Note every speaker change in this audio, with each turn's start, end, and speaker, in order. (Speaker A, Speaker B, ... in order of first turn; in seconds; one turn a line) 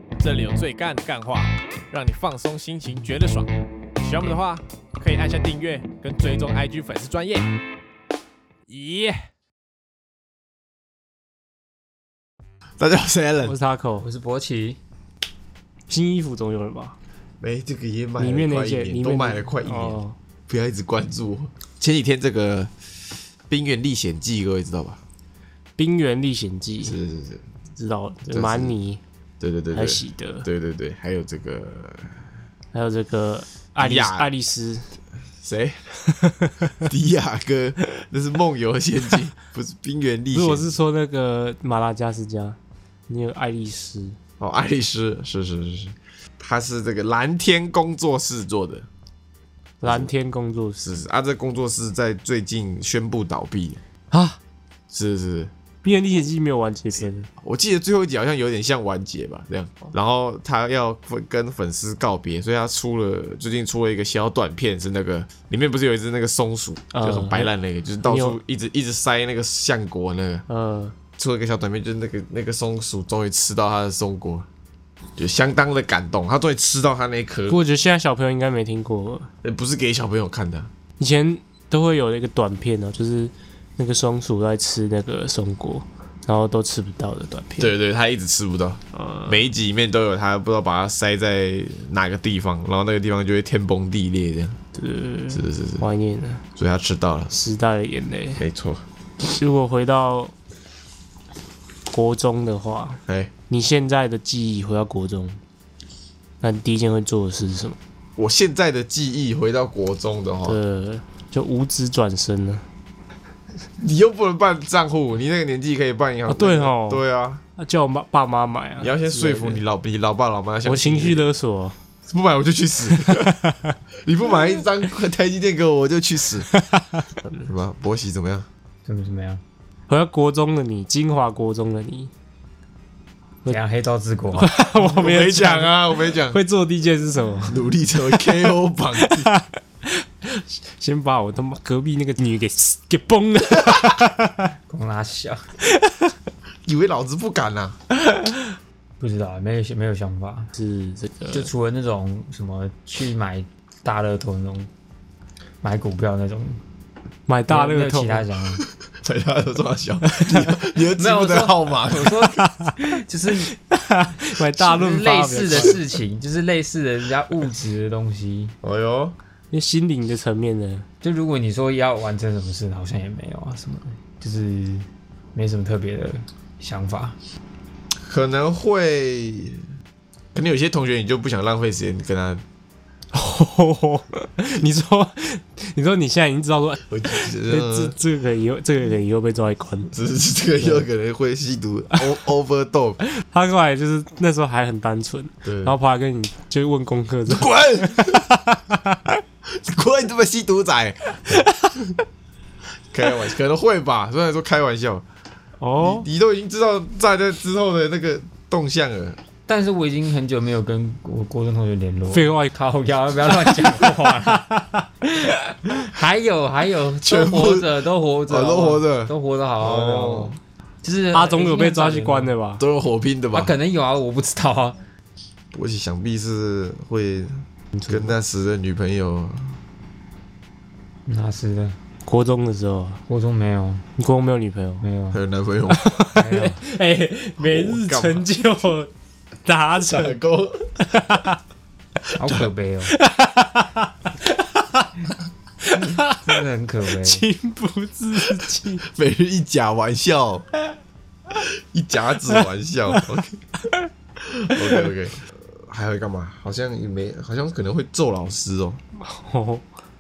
Speaker A: 0.2-7.5
Speaker A: 8.7-9.3
Speaker B: 12.8-13.6
Speaker C: 13.4-14.1
Speaker D: 14.0-14.8
Speaker C: 15.9-16.9
Speaker B: 17.4-22.7
Speaker C: 18.2-20.1
Speaker B: 23.5-25.0
Speaker C: 25.8-27.0
Speaker B: 26.8-27.4
Speaker C: 27.8-29.0
Speaker B: 28.2-28.7
Speaker B: 29.4-32.1
Speaker C: 29.7-30.5
Speaker C: 32.7-34.9
Speaker B: 33.8-34.3
Speaker B: 35.4-35.8
Speaker C: 36.1-36.8
Speaker B: 36.8-40.7
Speaker C: 40.3-44.2
Speaker B: 44.4-48.9
Speaker C: 49.8-51.0
Speaker B: 49.8-50.1
Speaker B: 50.8-53.8
Speaker C: 54.1-54.4
Speaker B: 54.9-55.5
Speaker C: 55.8-57.3
Speaker B: 57.4-70.4
Speaker C: 66.9-67.5
Speaker C: 68.0-68.4
Speaker C: 70.5-71.0
Speaker B: 71.1-74.5
Speaker B: 75.2-77.6
Speaker C: 77.5-79.3
Speaker B: 79.4-80.7
Speaker C: 81.0-87.7
Speaker B: 87.6-94.6
Speaker C: 88.9-89.4
Speaker C: 94.7-96.4
Speaker B: 95.3-95.8
Speaker B: 96.5-97.3
Speaker C: 97.3-98.4
Speaker B: 98.4-98.8
Speaker C: 99.2-100.3
Speaker C: 101.9-105.4
Speaker C: 106.4-107.8
Speaker B: 108.2-110.6
Speaker C: 110.5-112.6
Speaker B: 113.8-117.4
Speaker C: 116.3-117.0
Speaker C: 117.6-119.6
Speaker B: 118.8-121.2
Speaker C: 120.6-121.8
Speaker B: 122.1-123.3
Speaker C: 122.9-123.8
Speaker B: 124.0-126.5
Speaker C: 126.5-127.0
Speaker B: 127.4-128.5
Speaker D: 128.8-129.4
Speaker C: 129.9-132.1
Speaker D: 133.4-134.5
Speaker C: 134.3-137.6
Speaker B: 134.8-136.4
Speaker B: 137.5-139.3
Speaker C: 138.2-138.4
Speaker C: 139.0-144.5
Speaker D: 144.7-145.5
Speaker C: 145.7-146.1
Speaker B: 146.6-147.8
Speaker D: 149.0-150.5
Speaker C: 150.6-151.5
Speaker D: 151.3-154.7
Speaker D: 155.6-156.6
Speaker C: 157.3-158.2
Speaker D: 157.5-158.6
Speaker B: 158.8-162.4
Speaker C: 160.2-160.5
Speaker D: 160.9-163.5
Speaker C: 163.4-165.8
Speaker D: 164.6-168.5
Speaker B: 168.6-169.2
Speaker C: 169.5-170.8
Speaker D: 171.0-177.2
Speaker B: 178.0-179.6
Speaker B: 180.3-182.4
Speaker C: 183.1-189.9
Speaker B: 186.9-187.9
Speaker B: 189.9-193.0
Speaker C: 193.1-199.1
Speaker B: 195.4-195.7
Speaker B: 197.3-198.3
Speaker B: 199.5-201.4
Speaker C: 201.3-201.7
Speaker B: 202.9-205.1
Speaker C: 205.6-206.1
Speaker B: 205.8-209.2
Speaker D: 209.5-214.5
Speaker C: 212.1-212.5
Speaker C: 214.2-214.9
Speaker D: 215.3-222.3
Speaker B: 217.0-220.4
Speaker C: 221.1-222.6
Speaker B: 222.6-223.5
Speaker D: 223.3-224.8
Speaker B: 225.5-229.6
Speaker C: 227.8-228.1
Speaker D: 231.1-231.8
Speaker C: 232.0-233.0
Speaker D: 233.1-233.8
Speaker C: 234.0-234.8
Speaker D: 234.8-235.2
Speaker B: 235.1-235.8
Speaker C: 235.7-238.9
Speaker D: 236.2-236.6
Speaker B: 237.4-238.2
Speaker C: 239.4-240.2
Speaker B: 239.8-240.7
Speaker C: 240.8-241.4
Speaker D: 242.2-242.9
Speaker C: 242.9-244.9
Speaker C: 245.6-246.4
Speaker D: 245.7-247.2
Speaker C: 247.0-248.8
Speaker B: 248.8-250.5
Speaker B: 251.4-253.3
Speaker B: 254.3-258.8
Speaker C: 254.5-254.9
Speaker C: 259.0-259.6